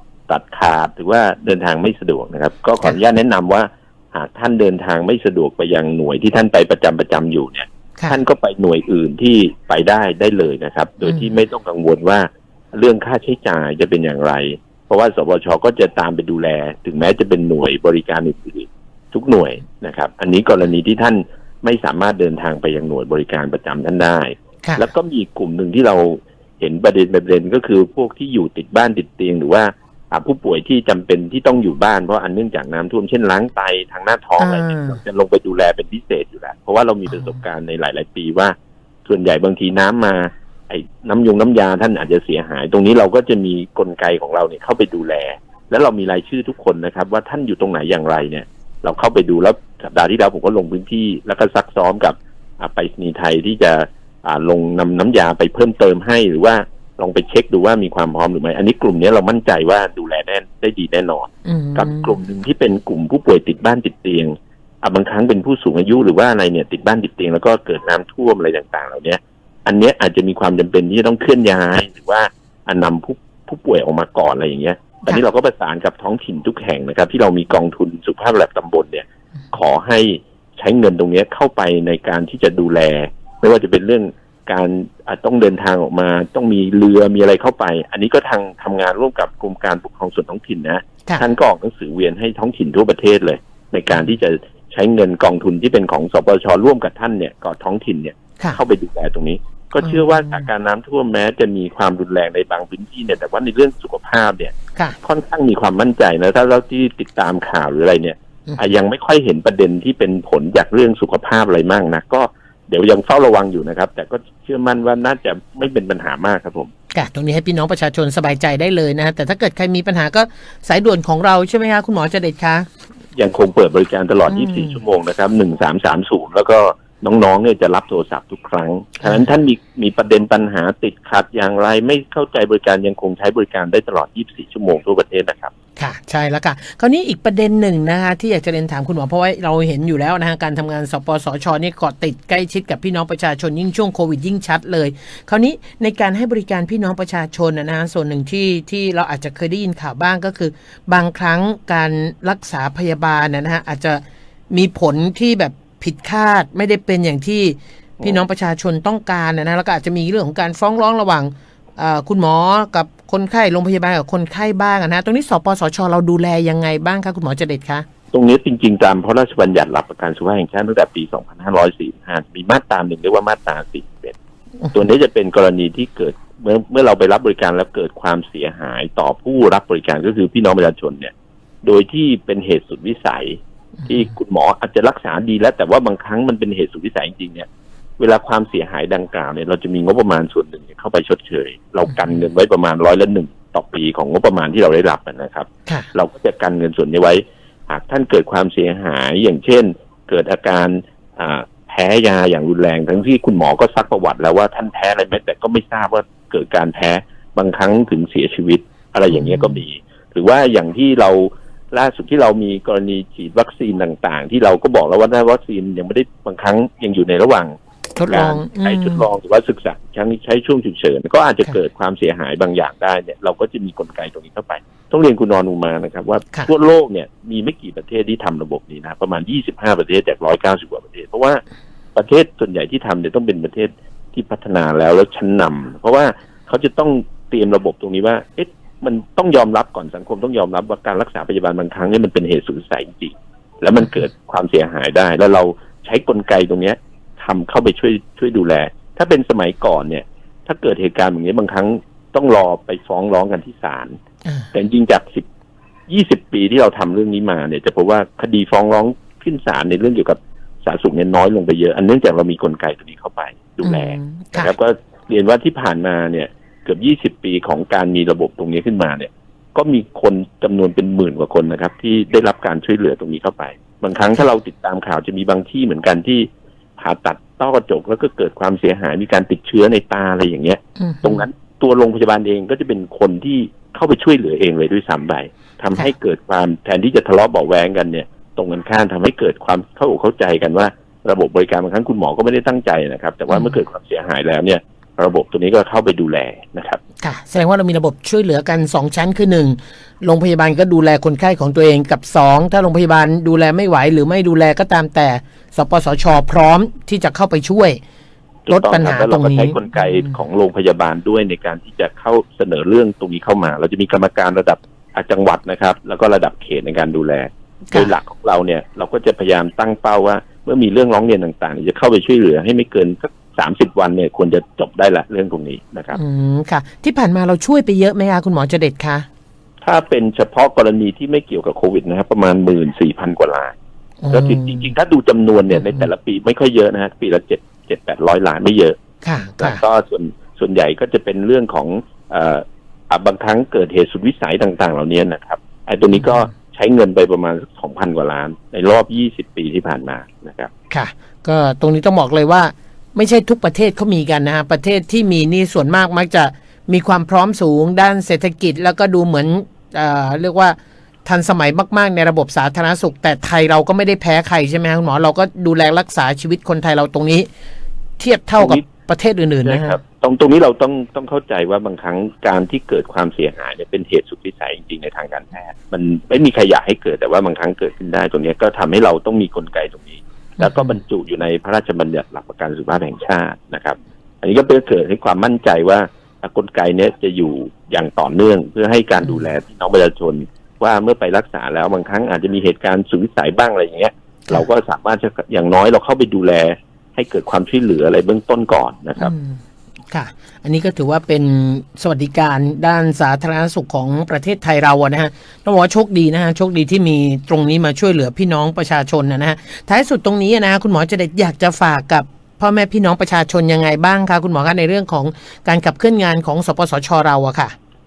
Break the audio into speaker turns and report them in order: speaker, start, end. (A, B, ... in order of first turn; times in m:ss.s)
0:00.3-1:56.7 A
0:34.4-0:35.0 B
0:37.1-0:37.4 B
1:01.4-1:02.2 B
1:33.9-1:34.2 B
1:39.8-1:40.5 B
1:56.9-2:02.7 B
2:03.2-2:15.5 A
2:04.3-2:04.8 B
2:09.0-2:09.3 B
2:15.8-2:47.8 B
2:48.1-2:54.2 A
2:54.7-3:07.5 A
3:08.0-3:37.6 A
3:11.9-3:12.2 B
3:29.1-3:29.6 B
3:38.0-3:39.1 B
3:38.1-3:51.4 A
3:52.0-4:14.0 A
4:14.5-4:15.3 A
4:15.9-4:56.8 A
4:23.6-4:24.5 B
4:40.8-4:41.3 B
4:53.3-4:53.6 B
4:57.0-5:07.8 B
5:08.5-5:26.0 A
5:08.5-5:10.1 B
5:26.0-5:29.1 B
5:29.6-5:33.6 A
5:34.0-5:34.7 B
5:34.1-5:38.8 A
5:35.5-5:35.9 B
5:39.0-5:39.6 B
5:39.4-5:50.5 A
5:45.9-5:46.3 B
5:50.7-6:07.3 B
6:08.0-6:09.8 B
6:08.4-6:08.6 A
6:09.4-6:39.1 A
6:20.4-6:20.8 B
6:29.0-6:29.3 B
6:39.0-6:57.6 B